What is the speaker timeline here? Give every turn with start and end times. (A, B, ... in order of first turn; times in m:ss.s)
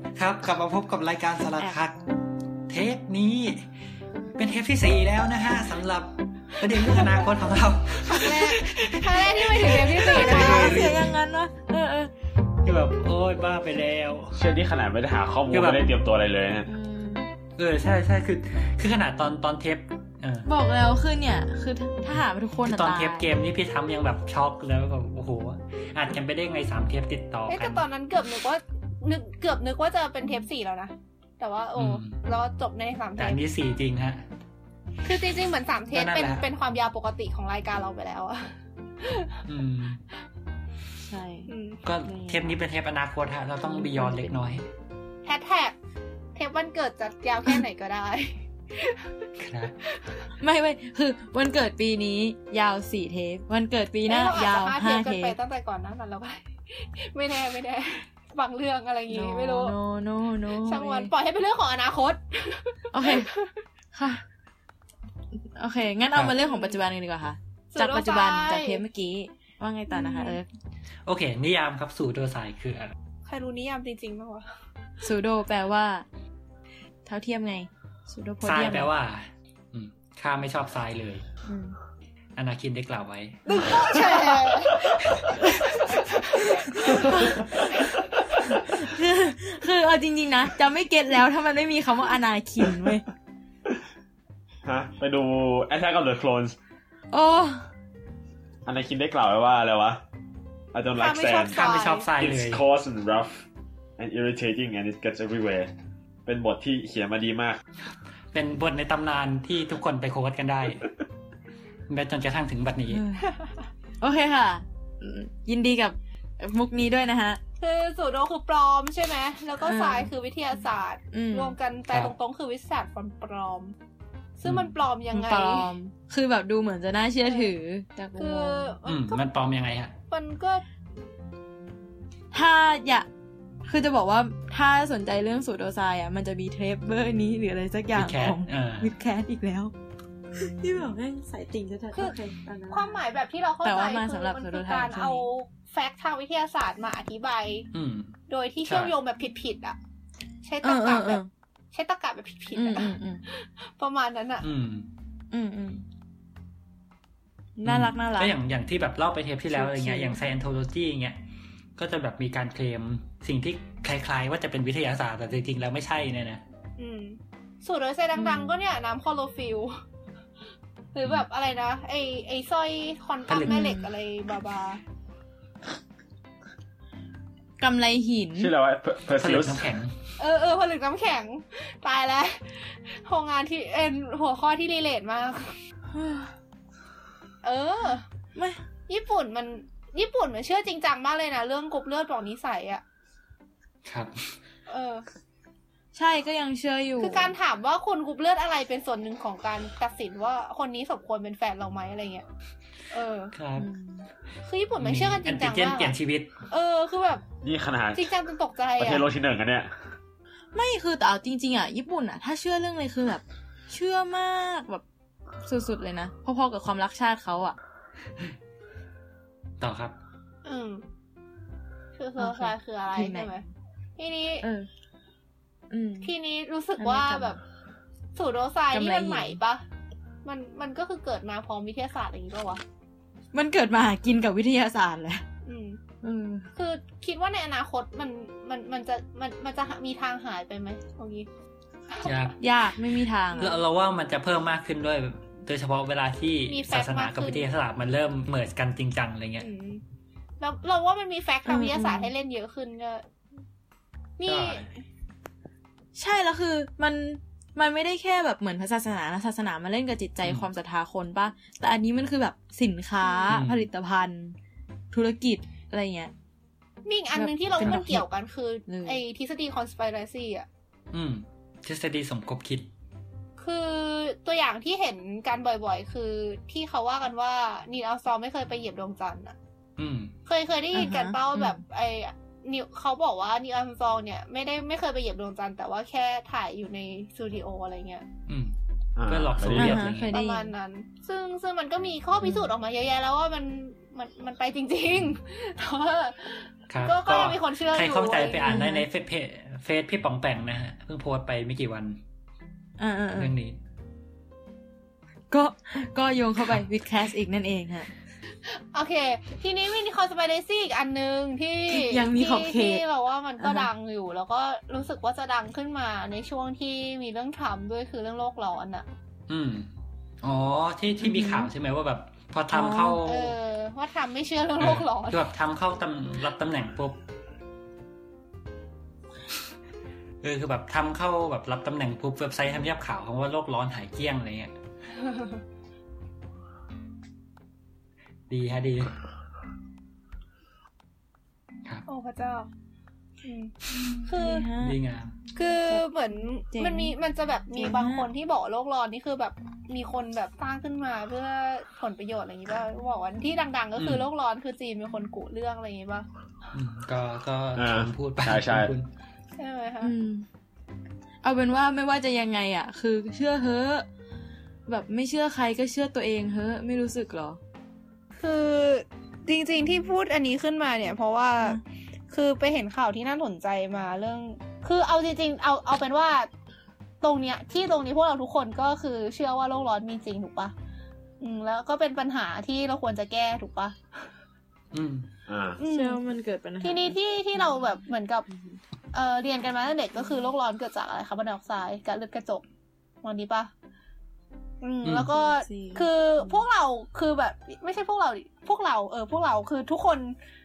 0:00.1-0:02.0 A
0:02.7-0:03.7 A
0:04.4-0:11.1 A
0:08.0-0:10.9 B
0:10.0-0:12.1 C
0:12.6-0:14.4 A
0:14.3-0:16.7 D
0:15.5-0:15.9 A
0:16.6-0:17.3 C
0:17.6-0:20.5 A
0:20.4-0:23.2 C
0:22.6-0:27.8 A
0:27.5-0:33.4 B
0:31.8-0:32.2 A
0:33.2-0:34.2 A
0:35.0-0:39.3 B
0:35.9-0:36.4 A
0:39.4-0:40.0 A
0:41.1-0:42.6 C
0:41.5-0:41.8 B
0:41.8-0:44.6 A
0:43.6-0:44.6 C
0:45.2-0:45.8 B
0:46.3-0:49.3 B
0:49.4-0:49.8 A
0:49.8-0:50.2 B
0:50.4-0:55.4 C
0:54.1-0:59.7 B
0:59.1-1:01.1 C
1:00.6-1:03.5 B
1:02.9-1:03.3 C
1:03.9-1:04.2 C
1:05.3-1:10.5 C
1:06.4-1:06.8 B
1:07.7-1:08.8 B
1:09.9-1:10.4 B
1:11.0-1:12.9 A
1:13.2-1:14.5 B
1:15.0-1:16.0 C
1:17.0-1:18.9 C
1:18.4-1:21.2 A
1:21.4-1:21.8 C
1:22.4-1:23.5 A
1:23.5-1:27.1 B
1:23.9-1:24.3 C
1:26.4-1:33.0 C
1:34.6-1:36.6 D
1:37.1-1:37.7 C
1:38.6-1:40.0 D
1:40.7-1:43.4 D
1:41.0-1:42.1 B
1:41.4-1:42.6 A
1:44.0-1:45.7 D
1:46.2-1:47.6 D
1:47.8-1:50.8 A
1:51.9-1:53.0 A
1:52.9-1:53.3 C
1:54.0-1:57.4 C
1:57.6-2:03.7 B
1:59.6-2:00.1 C
2:01.1-2:01.6 C
2:04.4-2:05.7 B
2:04.4-2:04.7 A
2:05.1-2:08.8 C
2:07.2-2:07.5 B
2:08.2-2:09.2 B
2:08.8-2:09.9 A
2:10.1-2:10.6 B
2:12.3-2:13.1 C
2:13.6-2:19.7 C
2:17.9-2:18.9 A
2:20.4-2:23.0 C
2:22.7-2:27.7 B
2:23.6-2:25.3 C
2:27.7-2:28.9 A
2:28.3-2:29.8 B
2:30.4-2:31.2 B
2:30.6-2:31.3 C
2:31.7-2:34.4 B
2:32.5-2:33.2 C
2:34.4-2:34.9 A
2:35.3-2:35.8 C
2:37.6-2:38.3 C
2:37.6-2:41.2 A
2:39.5-2:40.2 C
2:41.8-2:46.4 A
2:46.8-2:49.8 B
2:48.1-2:48.6 C
2:50.9-2:54.8 B
2:53.3-2:53.8 A
2:53.4-2:53.8 C
2:57.6-2:58.5 C
2:58.4-2:59.7 D
2:59.2-3:00.0 A
3:00.2-3:05.6 B
3:05.9-3:06.3 C
3:07.4-3:08.0 B
3:08.3-3:08.6 C
3:08.9-3:12.8 B
3:13.8-3:14.3 A
3:14.7-3:15.0 B
3:15.9-3:17.3 C
3:17.0-3:22.2 B
3:22.9-3:23.3 B
3:23.3-3:23.7 A
3:23.6-3:24.1 C
3:24.4-3:25.9 B
3:24.8-3:26.3 A
3:26.5-3:27.2 B
3:27.4-3:28.1 D
3:27.9-3:29.0 B
3:28.8-3:29.7 D
3:30.5-3:34.8 C
3:35.4-3:37.6 C
3:39.6-3:40.0 A
3:40.4-3:40.8 B
3:42.0-3:43.4 B
3:42.2-3:43.3 C
3:44.0-3:44.4 B
3:44.4-3:44.7 C
3:45.7-3:46.1 C
3:46.0-3:47.4 B
3:46.8-3:47.4 C
3:48.1-3:49.6 B
3:48.7-3:49.4 C
3:50.2-3:52.6 B
3:53.3-3:55.2 C
3:55.4-3:55.8 B
3:56.0-3:56.5 C
3:56.5-4:01.3 B
4:02.0-4:02.4 A
4:02.4-4:03.6 C
4:03.4-4:09.5 A
4:06.5-4:07.4 B
4:09.4-4:09.8 B
4:10.4-4:13.0 B
4:11.4-4:12.1 C
4:14.2-4:14.8 B
4:14.2-4:14.7 A
4:15.9-4:24.4 C
4:20.2-4:20.5 A
4:23.0-4:23.4 B
4:23.3-4:23.7 A
4:24.9-4:26.1 C
4:26.8-4:30.5 B
4:27.1-4:28.0 C
4:28.7-4:29.0 C
4:30.9-4:32.7 A
4:33.4-4:39.3 B
4:39.8-4:40.1 A
4:40.3-4:48.0 B
4:40.7-4:41.6 C
4:48.3-4:48.5 A
4:49.0-4:49.9 D
4:49.1-4:50.1 A
4:49.5-4:50.5 C
4:50.1-4:58.6 B
4:52.2-4:52.5 C
4:56.7-5:02.0 A
4:58.4-4:58.9 C
5:02.8-5:03.3 C
5:03.2-5:03.6 A
5:05.3-5:07.9 C
5:08.5-5:18.8 B
5:11.7-5:12.8 C
5:13.4-5:13.7 C
5:19.3-5:19.7 A
5:20.2-5:23.4 A
5:21.0-5:21.5 C
5:22.5-5:23.0 C
5:23.0-5:25.2 B
5:24.6-5:27.0 A
5:30.2-5:34.5 A
5:35.0-5:35.4 B
5:38.3-5:38.9 A
5:41.9-5:42.5 B
5:43.2-5:43.5 B
5:43.8-5:44.8 C
5:44.0-5:44.5 B
5:44.6-5:45.2 A
5:45.4-5:56.0 B
5:45.6-5:46.9 C
5:47.6-5:48.1 C
5:53.8-5:54.1 A
5:56.5-5:58.9 A
5:57.5-5:58.7 D
5:59.4-5:59.9 B
5:59.8-6:00.3 C
6:01.2-6:03.8 C
6:04.7-6:07.4 C
6:08.2-6:16.3 B
6:17.0-6:20.5 B
6:21.2-6:23.7 B
6:24.7-6:25.1 A
6:25.3-6:25.6 D
6:25.6-6:26.0 B
6:25.6-6:28.6 C
6:26.6-6:28.2 B
6:28.9-6:32.4 B
6:33.0-6:33.5 B
6:34.6-6:40.2 B
6:34.8-6:35.1 A
6:35.2-6:36.4 C